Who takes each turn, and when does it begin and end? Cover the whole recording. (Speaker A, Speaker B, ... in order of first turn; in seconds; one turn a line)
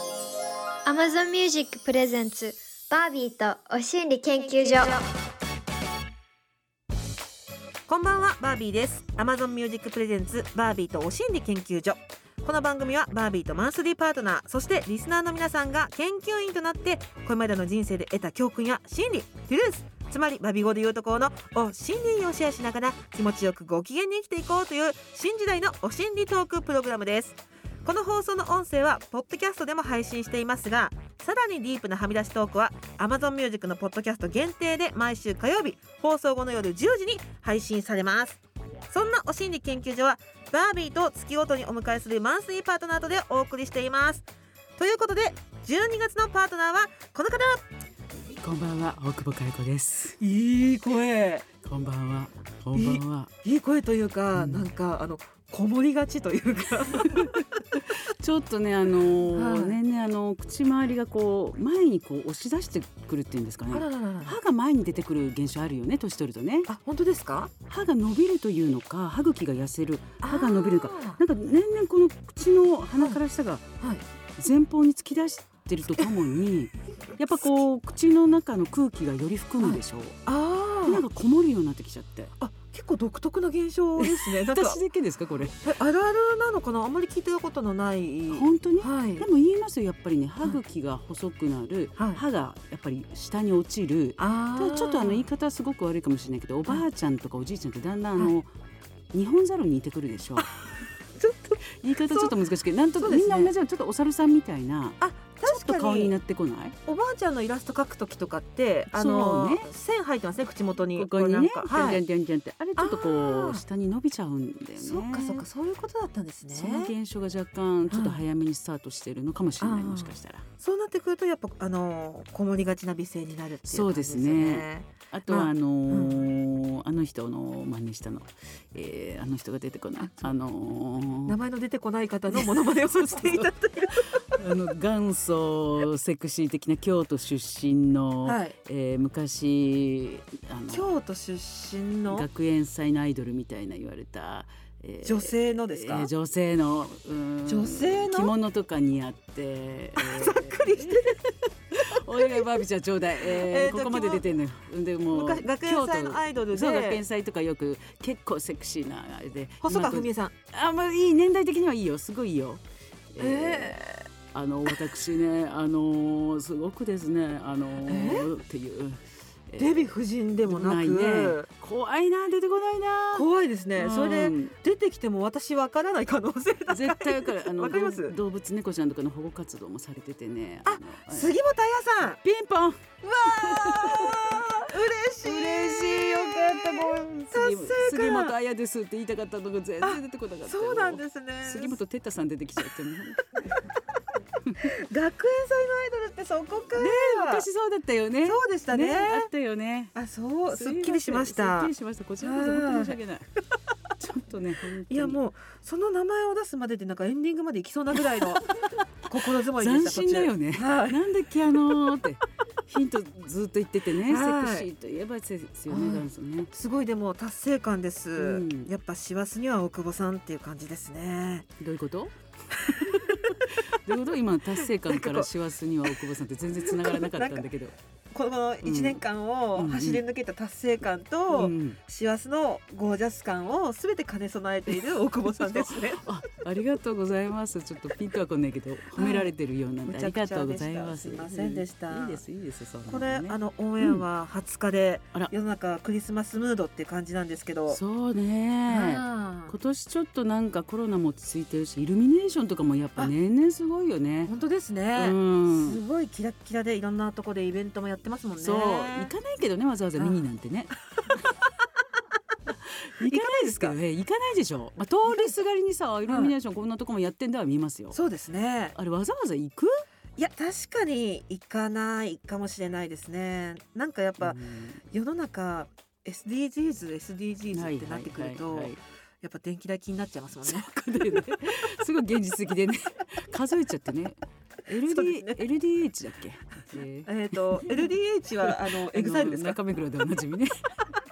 Speaker A: 0.8-5.1
Speaker B: 7.9-47.7
Speaker C: 48.3-50.2
Speaker B: 50.2-51.5
Speaker C: 51.6-53.3
Speaker B: 52.7-57.6
Speaker C: 54.4-54.6
Speaker C: 57.1-66.7
Speaker B: 59.3-59.8
Speaker B: 63.7-64.4
Speaker B: 66.7-67.5
Speaker C: 67.7-73.7
Speaker B: 70.2-71.2
Speaker C: 74.4-80.2
Speaker B: 79.6-81.0
Speaker C: 80.9-82.3
Speaker B: 82.4-84.8
Speaker C: 84.0-85.6
Speaker B: 85.6-89.3
Speaker C: 88.3-98.5
Speaker B: 92.0-92.2
Speaker B: 94.2-95.3
Speaker C: 99.1-100.5
Speaker B: 100.4-102.4
Speaker C: 101.6-106.8
Speaker B: 103.0-103.5
Speaker B: 105.0-106.1
Speaker B: 106.9-112.0
Speaker C: 108.9-109.7
Speaker C: 111.0-115.5
Speaker B: 112.8-113.6
Speaker B: 114.8-116.9
Speaker C: 116.5-120.5
Speaker B: 117.9-118.2
Speaker B: 119.6-126.3
Speaker C: 123.7-131.4
Speaker B: 130.0-130.3
Speaker B: 131.3-134.5
Speaker C: 132.3-140.9
Speaker B: 138.2-138.6
Speaker B: 140.7-142.3
Speaker C: 142.1-151.2
Speaker B: 145.0-146.1
Speaker B: 147.5-148.3
Speaker B: 150.0-152.6
Speaker C: 151.7-163.8
Speaker B: 153.2-154.2
Speaker B: 155.1-157.0
Speaker B: 159.6-160.3
Speaker B: 163.2-164.1
Speaker C: 164.3-169.9
Speaker B: 167.9-168.3
Speaker B: 169.6-171.5
Speaker C: 170.5-174.5
Speaker B: 173.1-178.2
Speaker C: 176.7-181.4
Speaker B: 180.7-182.2
Speaker C: 182.1-184.6
Speaker B: 183.0-188.3
Speaker C: 185.2-193.6
Speaker B: 189.8-191.8
Speaker C: 194.4-194.7
Speaker B: 194.6-197.5
Speaker C: 196.8-199.9
Speaker B: 198.2-199.3
Speaker B: 199.9-203.0
Speaker C: 200.5-203.3
Speaker C: 204.0-205.2
Speaker B: 204.9-208.5
Speaker C: 208.4-216.5
Speaker B: 209.1-211.0
Speaker B: 214.0-214.7
Speaker B: 215.7-221.5
Speaker C: 218.2-218.7
Speaker C: 221.6-227.7
Speaker B: 222.6-223.4
Speaker B: 224.6-225.3
Speaker B: 226.5-227.5
Speaker B: 228.1-236.1
Speaker C: 228.6-229.0
Speaker C: 229.6-230.0
Speaker C: 231.3-231.8
Speaker C: 235.3-244.0
Speaker B: 238.9-239.3
Speaker B: 239.9-242.2
Speaker B: 242.9-247.8
Speaker C: 247.7-254.3
Speaker B: 248.7-249.6
Speaker B: 254.3-259.1
Speaker C: 254.9-255.8
Speaker C: 258.4-260.7
Speaker C: 262.6-268.0
Speaker B: 263.0-263.8
Speaker B: 265.1-265.3
Speaker B: 266.1-266.3
Speaker B: 267.9-268.8
Speaker C: 268.7-269.8
Speaker B: 270.2-281.3
Speaker C: 274.2-274.8
Speaker C: 277.5-278.8
Speaker C: 280.4-287.8
Speaker B: 284.8-285.4
Speaker B: 287.1-289.6
Speaker C: 288.5-290.8